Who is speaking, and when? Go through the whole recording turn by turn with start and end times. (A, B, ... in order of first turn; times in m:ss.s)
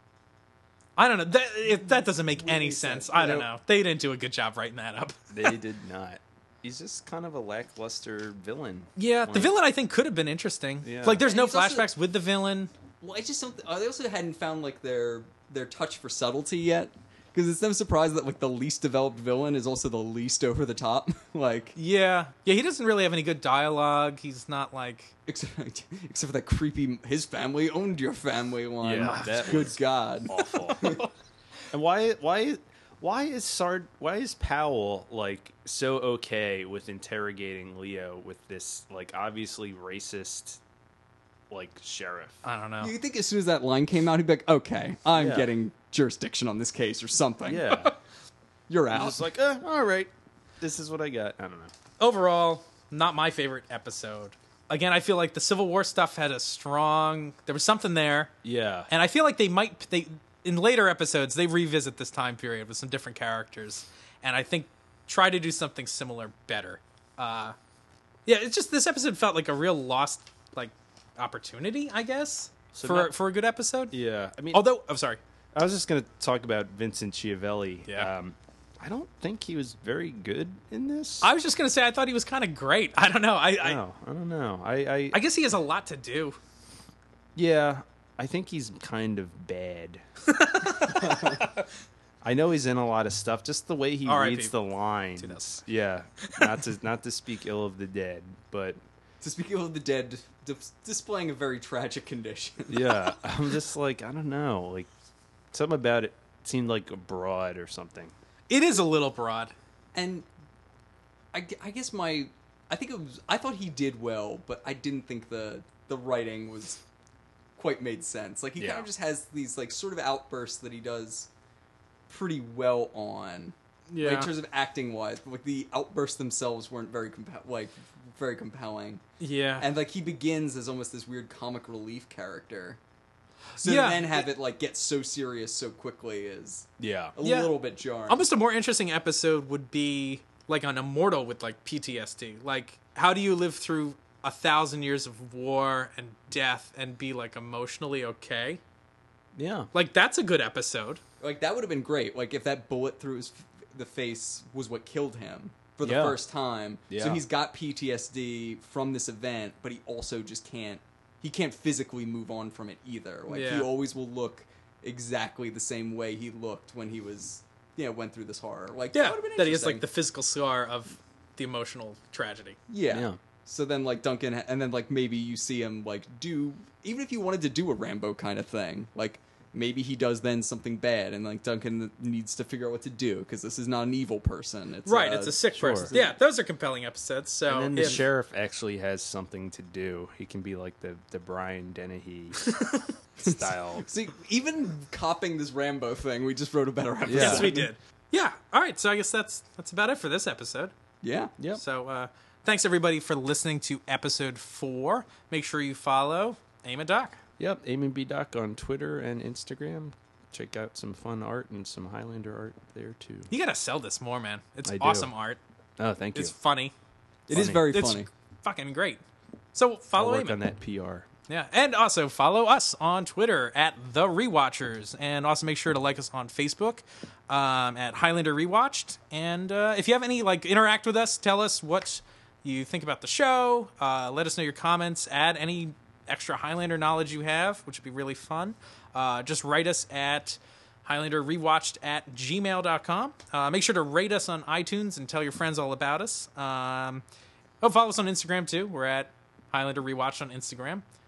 0:01.0-0:05.6 A
0:01.7-0:03.4 B
0:03.2-0:03.5 C
0:05.3-0:09.6 C
0:09.0-0:12.7 A
0:10.8-0:11.2 C
0:11.2-0:11.9 B
0:13.0-0:21.8 B
0:21.8-0:25.1 A
0:25.3-0:31.0 B
0:28.8-0:31.0 C
0:31.7-0:40.6 C
0:41.5-0:42.4 C
0:42.4-0:42.9 A
0:42.8-0:47.8 B
0:45.2-0:45.5 C
0:47.4-0:47.9 C
0:48.7-0:49.3 B
0:48.9-0:51.7 C
0:52.0-0:58.3 A
0:58.4-0:58.9 C
0:58.9-1:07.6 A
1:08.3-1:14.0 A
1:12.7-1:13.1 C
1:13.9-1:14.6 C
1:14.5-1:15.2 A
1:15.5-1:21.3 C
1:17.9-1:18.1 A
1:21.2-1:23.8 A
1:23.6-1:25.2 C
1:25.1-1:26.4 A
1:27.4-1:30.0 C
1:30.3-1:31.6 A
1:30.9-1:31.4 B
1:32.2-1:38.8 C
1:34.1-1:34.6 A
1:35.2-1:35.6 A
1:39.2-1:43.0 B
1:42.7-1:44.9 C
1:45.5-1:48.1 C
1:48.5-1:49.5 A
1:49.9-1:50.3 B
1:51.3-1:56.8 B
1:57.6-2:01.3 B
1:58.6-1:58.9 C
2:02.1-2:09.0 B
2:03.9-2:04.3 A
2:09.2-2:09.7 A
2:09.6-2:12.8 B
2:13.6-2:14.3 A
2:13.6-2:18.2 B
2:16.8-2:17.1 C
2:17.2-2:17.5 A
2:18.1-2:28.6 A
2:29.4-2:29.7 C
2:29.7-2:31.0 A
2:31.2-2:49.8 B
2:35.8-2:36.2 C
2:36.9-2:37.2 C
2:43.3-2:43.7 A
2:48.9-2:52.6 A
2:52.7-3:06.2 B
2:52.9-2:53.2 C
3:04.8-3:08.0 A
3:05.6-3:05.9 C
3:07.5-3:12.5 C
3:07.8-3:08.0 B
3:12.5-3:12.9 A
3:13.2-3:13.9 C
3:13.3-3:17.7 B
3:17.0-3:17.6 C
3:17.1-3:20.7 A
3:21.0-3:21.3 B
3:21.5-3:27.2 A
3:27.4-3:33.3 C
3:33.3-3:35.4 A
3:34.7-3:35.1 C
3:35.8-3:36.4 C
3:36.2-3:36.7 A
3:37.3-3:38.1 B
3:37.3-3:37.7 C
3:37.4-3:39.0 A
3:39.5-3:40.4 A
3:40.0-3:41.1 C
3:41.3-4:07.0 A
4:07.6-4:10.8 A